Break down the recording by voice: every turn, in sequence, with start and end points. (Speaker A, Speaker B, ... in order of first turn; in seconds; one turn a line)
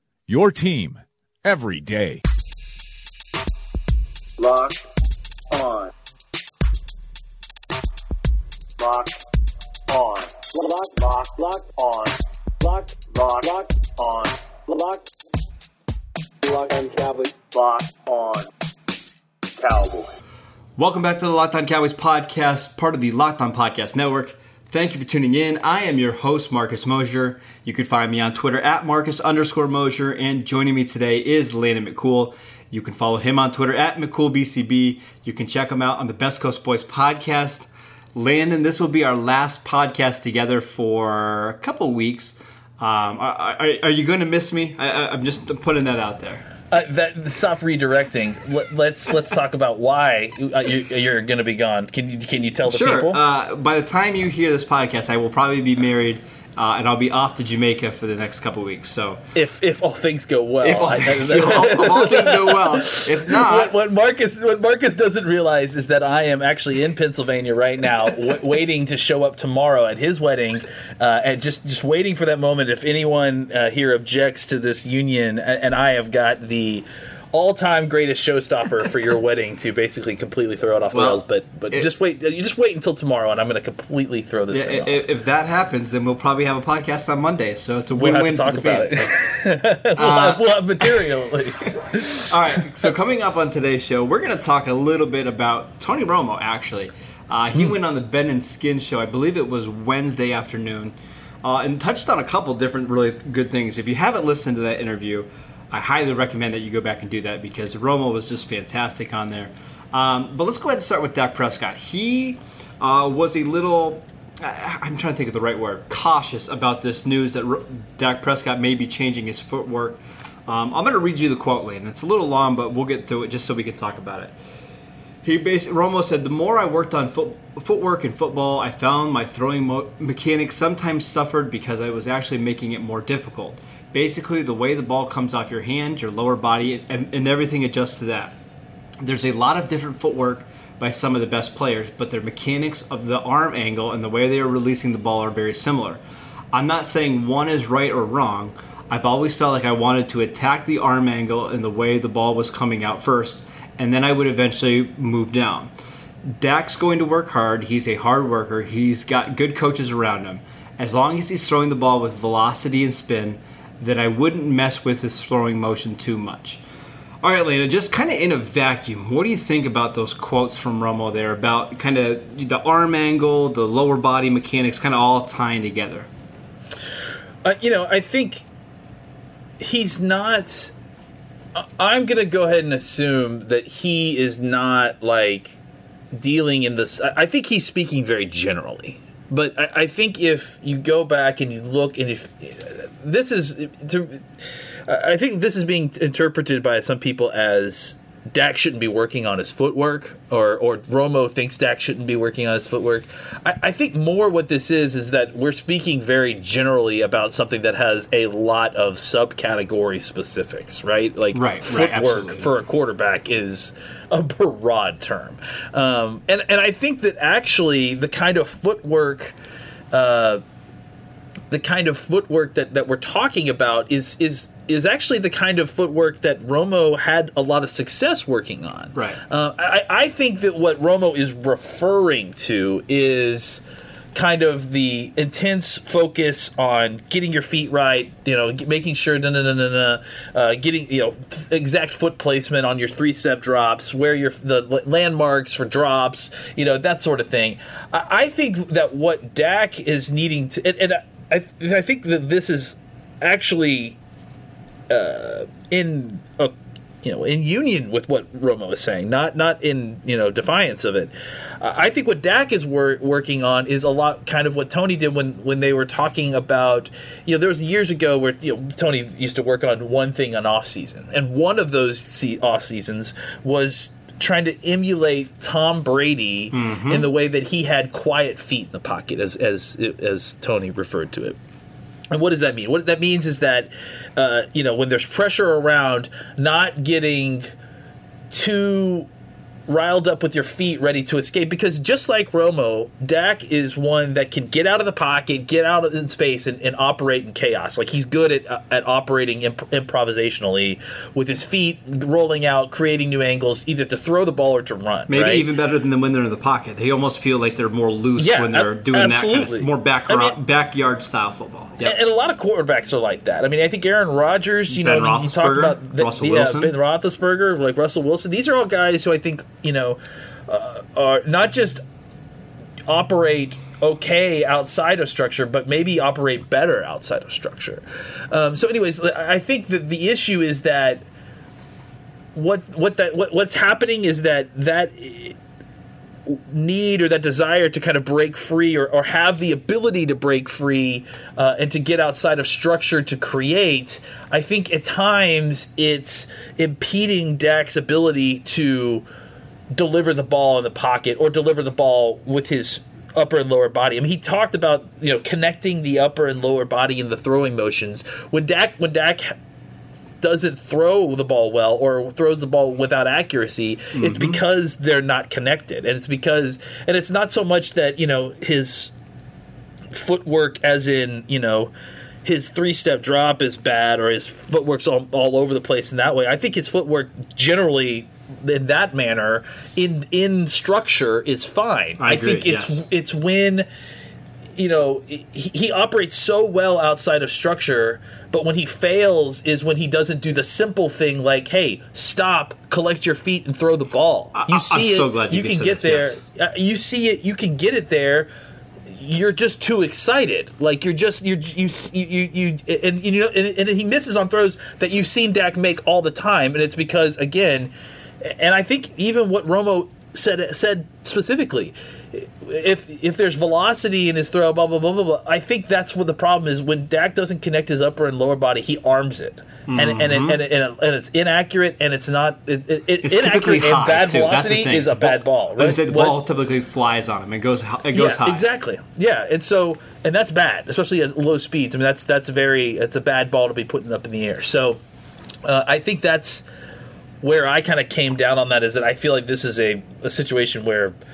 Speaker A: 0.3-2.2
Speaker B: 4.4-4.8
Speaker B: 5.5-5.9
Speaker B: 8.8-9.2
Speaker B: 9.9-15.1
Speaker B: 16.4-18.5
Speaker B: 19.6-20.1
Speaker C: 20.8-46.5
Speaker D: 46.7-53.2
Speaker C: 52.6-59.2
Speaker D: 59.4-85.0
Speaker C: 60.6-63.7
Speaker C: 80.9-81.2
Speaker C: 84.5-89.3
Speaker D: 88.0-92.3
Speaker C: 90.0-91.1
Speaker C: 92.3-124.3
Speaker C: 125.2-138.4
Speaker C: 139.0-146.0
Speaker C: 146.5-155.7
Speaker C: 156.3-166.6
Speaker C: 167.2-176.1
Speaker D: 177.4-178.4
Speaker D: 179.6-180.7
Speaker D: 181.6-185.6
Speaker D: 186.1-219.4
Speaker C: 211.3-212.5
Speaker D: 219.9-220.4
Speaker D: 221.5-233.6
Speaker C: 228.9-229.2
Speaker D: 234.1-254.0
Speaker D: 254.9-281.4
Speaker C: 276.5-277.1
Speaker D: 282.1-287.5
Speaker D: 288.3-289.1
Speaker D: 289.7-305.5
Speaker C: 305.1-312.0
Speaker D: 308.2-310.4
Speaker D: 311.8-321.8
Speaker C: 314.7-316.8
Speaker D: 322.9-331.0
Speaker D: 332.4-335.4
Speaker D: 336.3-349.1
Speaker D: 349.7-359.4
Speaker D: 360.2-368.9
Speaker C: 363.9-364.4
Speaker D: 369.9-371.7
Speaker D: 372.2-383.7
Speaker C: 382.0-382.8
Speaker D: 384.6-398.3
Speaker C: 394.3-396.2
Speaker D: 398.9-426.2
Speaker C: 419.7-420.4
Speaker C: 423.0-428.5
Speaker D: 427.9-434.8
Speaker D: 435.4-436.4
Speaker D: 437.2-440.9